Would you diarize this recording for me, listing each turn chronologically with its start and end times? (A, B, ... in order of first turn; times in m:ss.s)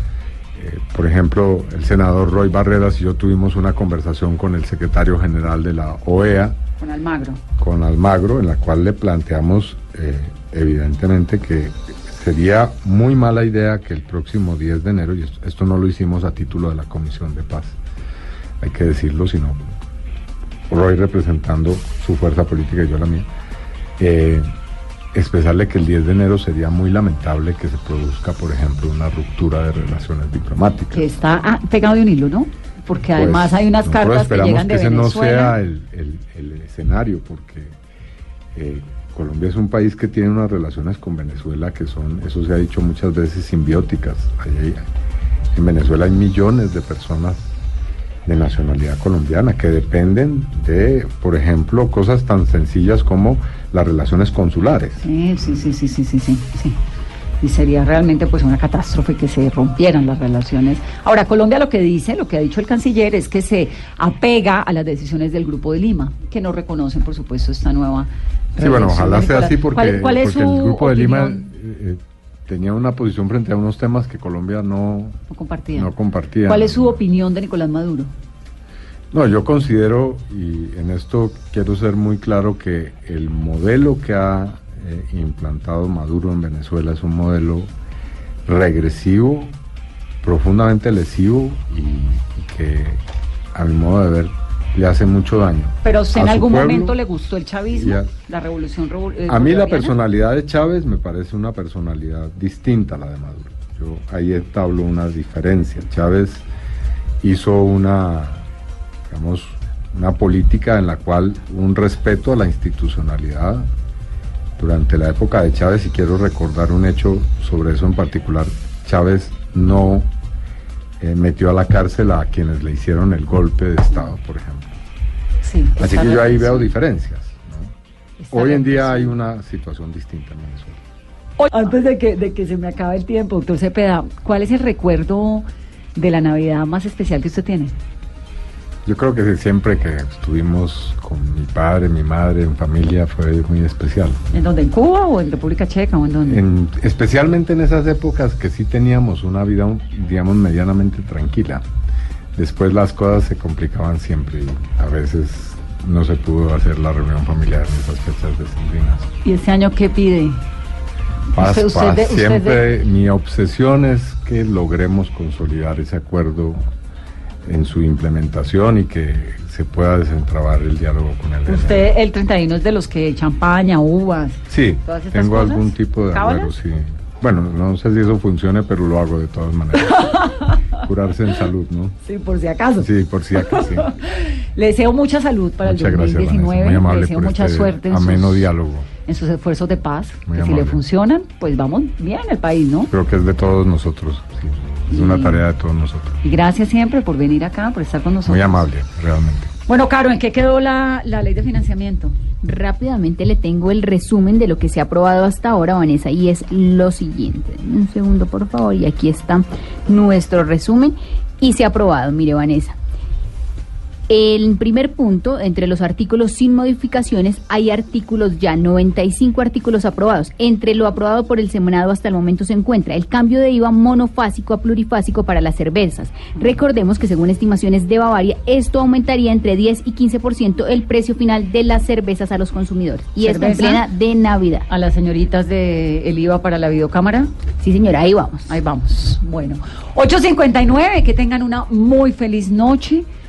0:00.6-0:06.6 A
0:06.8-0:07.4 B
0:07.6-0:17.8 A
0:18.6-0:19.8 A
0:20.7-0:23.3 A
0:24.0-0:24.5 A
0:25.1-0:31.1 A
0:30.9-0:35.6 B
0:33.2-0:37.8 A
0:38.6-0:44.8 A
0:45.5-0:47.5 A
0:48.3-0:55.0 A
0:55.0-0:56.8 B
0:57.4-1:11.5 B
1:08.6-1:15.2 A
1:15.3-1:15.9 B
1:15.8-1:17.0 A
1:16.5-1:18.1 B
1:19.1-1:27.7 A
1:28.5-1:29.6 A
1:30.2-1:33.0 A
1:33.5-1:37.0 A
1:35.8-1:40.0 B
1:37.7-1:38.1 A
1:39.3-1:46.4 A
1:47.2-1:48.5 A
1:49.1-1:53.7 A
1:54.6-2:00.1 A
2:01.0-2:04.8 A
2:05.4-2:06.7 B
2:05.8-2:07.7 A
2:08.2-2:09.1 B
2:08.3-2:10.8 A
2:11.4-2:17.8 B
2:18.8-2:24.2 A
2:24.3-2:26.4 B
2:26.2-2:31.6 A
2:32.4-2:39.1 A
2:39.2-2:40.4 B
2:41.3-2:46.6 A
2:41.4-2:42.7 B
2:47.4-2:51.9 A
2:51.5-2:56.5 B
2:54.5-3:00.2 A
2:59.9-3:00.6 B
3:00.8-3:02.0 A
3:02.0-3:08.5 B
3:02.8-3:03.9 A
3:05.6-3:08.9 A
3:09.1-3:12.9 B
3:10.3-3:10.8 A
3:12.9-3:16.2 A
3:14.9-3:15.4 B
3:16.2-3:18.7 B
3:18.3-3:19.5 A
3:19.7-3:22.1 B
3:22.4-3:32.8 C
3:34.1-3:54.7 C
3:53.2-3:53.8 B
3:54.7-3:57.3 B
3:57.6-3:58.6 C
3:58.5-4:03.1 B